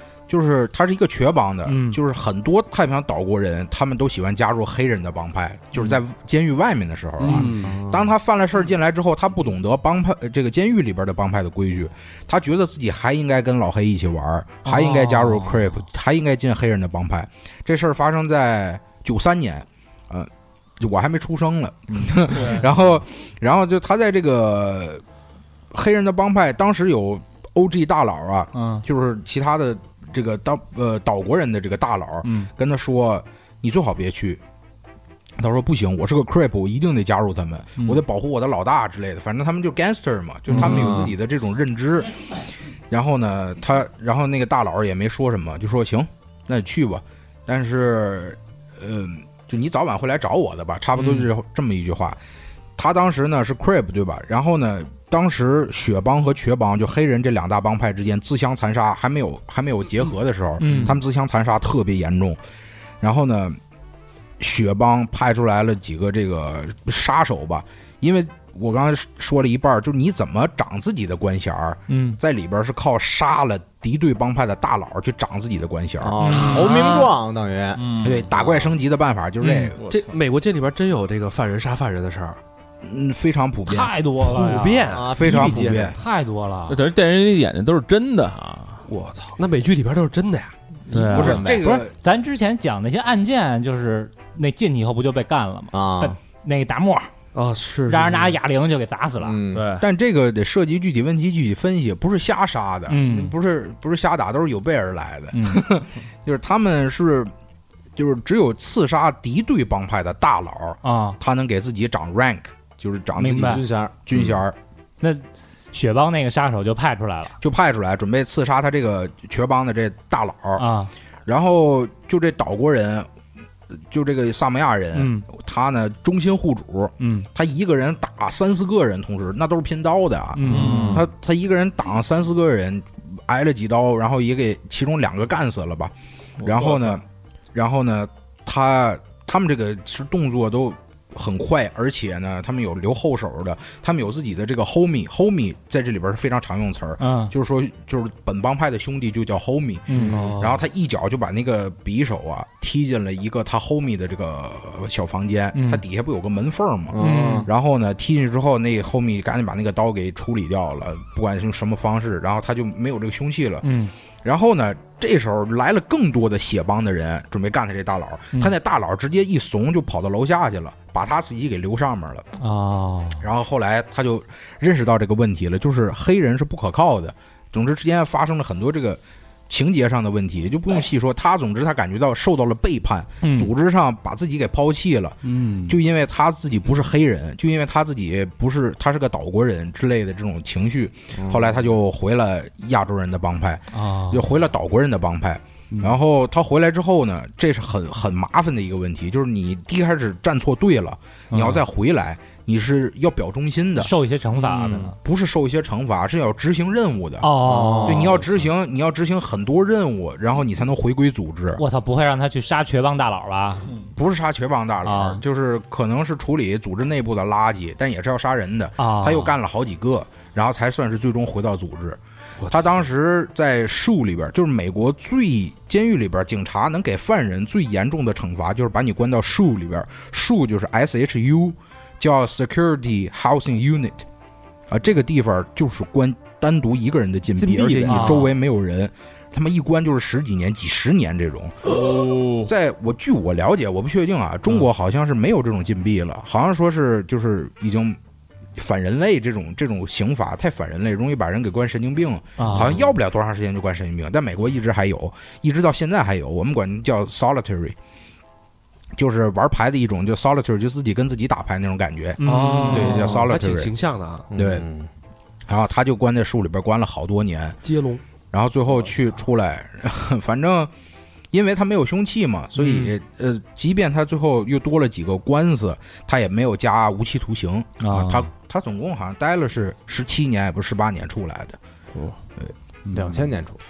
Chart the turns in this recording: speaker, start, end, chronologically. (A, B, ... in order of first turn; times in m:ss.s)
0:00.3-0:25.0 A
0:01.7-0:02.0 B
0:07.2-0:07.8 C
0:07.3-0:08.1 D
0:14.6-0:15.8 B
0:21.9-0:22.7 B
0:25.7-0:34.4 A
0:28.5-0:28.8 B
0:32.2-0:32.5 B
0:35.4-0:42.1 A
0:40.5-0:41.2 D
0:42.9-0:52.2 A
0:51.0-0:51.3 B
0:52.8-1:02.4 A
1:00.6-1:01.0 B
1:03.0-1:03.6 A
1:04.4-1:16.4 A
1:11.9-1:12.2 B
1:16.0-1:18.7 D
1:16.2-1:17.1 B
1:17.8-1:18.3 E
1:18.0-1:19.8 A
1:19.4-1:19.7 B
1:19.8-1:20.1 E
1:19.8-1:22.4 C
1:22.8-1:23.9 A
1:23.7-1:26.8 B
1:24.2-1:25.1 C
1:24.9-1:26.0 D
1:25.1-1:26.0 A
1:26.7-1:28.8 E
1:28.9-1:30.6 C
1:30.9-1:31.6 E
1:31.0-1:31.9 A
1:31.1-1:31.4 D
1:31.4-1:37.1 B
1:35.7-1:36.2 D
1:37.4-1:38.4 C
1:37.9-1:39.4 B
1:39.2-1:39.7 D
1:39.5-1:39.9 E
1:39.8-1:47.3 A
1:42.9-1:43.4 B
1:45.3-1:45.7 B
1:48.0-1:54.6 A
1:50.8-1:51.2 B
1:53.2-1:53.6 B
1:53.2-1:53.9 D
1:55.0-1:57.4 B
1:57.4-2:00.6 A
2:00.6-2:00.9 B
2:01.3-2:03.1 A
2:03.9-2:17.0 A
2:05.0-2:05.3 B
2:07.0-2:07.3 B
2:10.4-2:11.0 B
2:10.4-2:11.0 E
2:10.5-2:11.1 D
2:17.5-2:43.7 A
2:27.0-2:27.3 B
2:29.9-2:30.2 B
2:29.9-2:30.3 D
2:30.1-2:30.6 C
2:35.5-2:35.8 B
2:36.9-2:37.5 D
2:37.0-2:37.5 B
2:43.6-2:43.9 B
2:44.2-2:52.3 A
2:52.4-2:53.2 B
2:53.2-3:23.9 A
3:03.2-3:03.5 B
3:05.2-3:05.8 C
3:11.2-3:11.7 D
3:13.7-3:14.3 B
3:21.3-3:21.6 B
3:23.8-3:25.0 B
3:24.5-3:27.3 A
3:27.2-3:28.4 B
3:27.4-3:28.2 D
3:27.8-3:31.6 A
3:31.6-3:33.8 B
3:33.8-3:54.1 A
3:34.8-3:35.2 B
3:38.8-3:39.3 B
3:42.4-3:42.6 C
3:54.7-4:01.9 A
3:57.4-3:58.3 D
3:57.8-3:58.3 B
4:01.7-4:02.5 E
4:02.4-4:08.0 A
4:08.6-4:17.8 A
4:12.4-4:12.8 B
4:19.0-4:23.7 A
4:22.2-4:23.0 B
4:22.2-4:24.3 C
4:24.3-4:24.9 D
4:24.4-4:24.6 A
4:25.5-4:27.6 A
4:27.6-4:28.0 C
4:28.3-4:30.7 A
4:31.3-4:41.6 A
4:32.6-4:32.9 B
4:37.8-4:38.3 B
4:42.9-4:43.6 D